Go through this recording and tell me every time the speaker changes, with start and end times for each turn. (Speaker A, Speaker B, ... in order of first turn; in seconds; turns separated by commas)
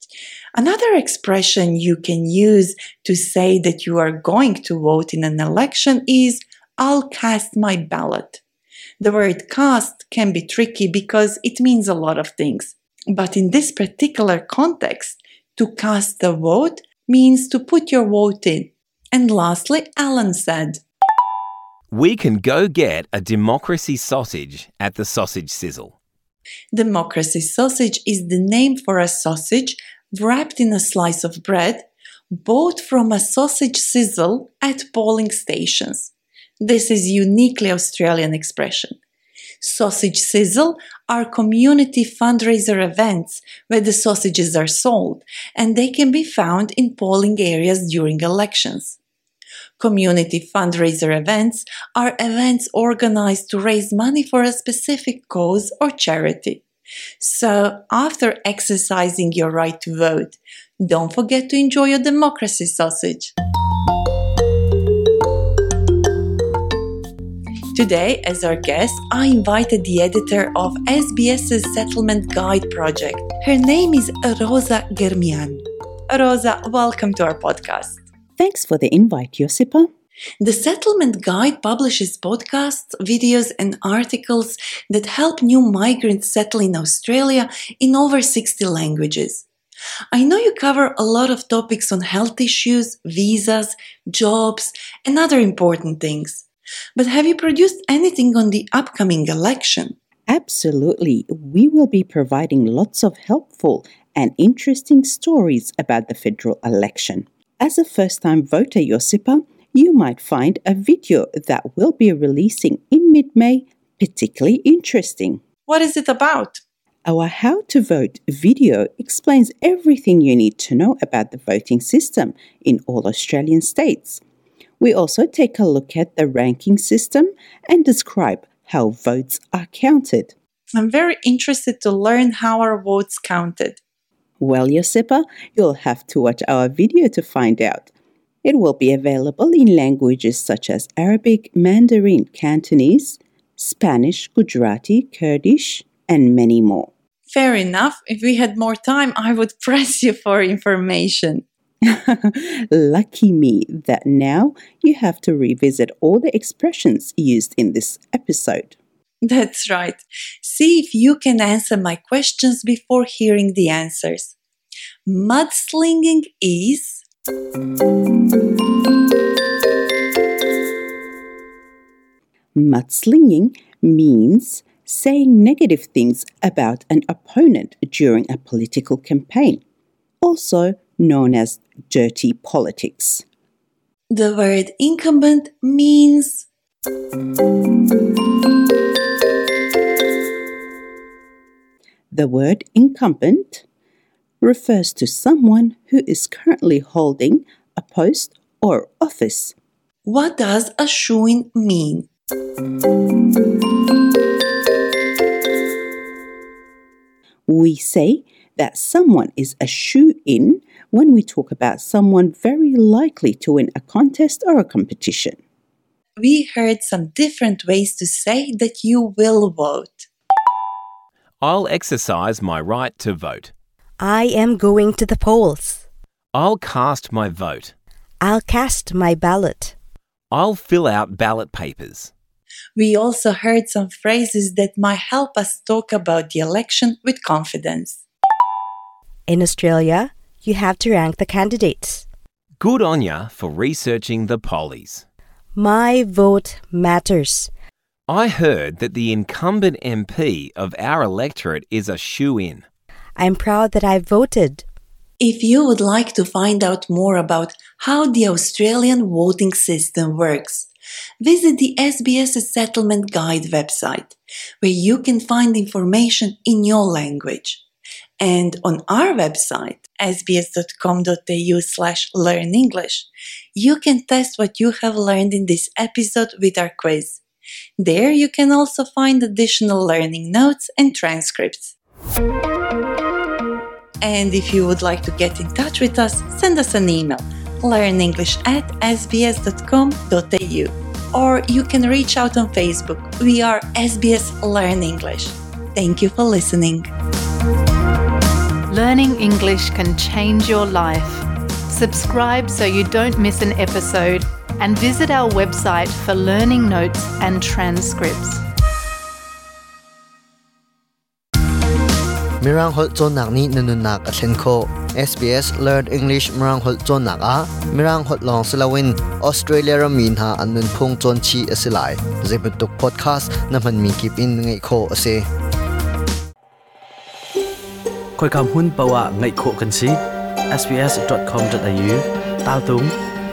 Speaker A: 0.6-8.4, Speaker A: 9.0-20.8, Speaker B: 21.9-25.9, Speaker A: 26.7-39.0, Speaker A: 39.6-49.0, Speaker A: 49.8-56.6, Speaker A: 57.2-63.3, Speaker A: 67.7-78.0, Speaker C: 78.4-79.9, Speaker A: 80.4-89.5, Speaker A: 90.1-99.9, Speaker C: 100.3-115.4, Speaker A: 115.7-116.6, Speaker C: 117.0-124.2, Speaker C: 124.8-130.3, Speaker A: 130.7-133.8, Speaker C: 134.4-137.9, Speaker C: 138.4-146.9, Speaker A: 147.3-151.4, Speaker C: 151.8-158.7, Speaker A: 159.2-164.3, Speaker A: 165.1-167.0, Speaker C: 172.6-179.6, Speaker C: 180.2-183.2, Speaker A: 184.1-186.5, Speaker C: 192.1-193.6, Speaker C: 194.4-199.5, Speaker A: 200.0-202.1, Speaker C: 207.5-215.4, Speaker A: 216.2-220.1, Speaker B: 221.4-223.5, Speaker D: 224.0-225.8, Speaker B: 226.3-227.7, Speaker D: 228.2-229.7, Speaker B: 230.3-232.1, Speaker A: 232.8-238.0, Speaker D: 239.3-242.1, Speaker B: 242.6-245.0, Speaker D: 245.5-247.5, Speaker B: 248.1-252.6, Speaker D: 253.2-254.6, Speaker A: 255.2-260.7, Speaker A: 261.2-267.6, Speaker A: 268.2-277.2, Speaker A: 277.8-281.8, Speaker A: 284.0-296.9, Speaker E: 298.7-308.4, Speaker F: 312.4-325.2, Speaker G: 328.2-332.9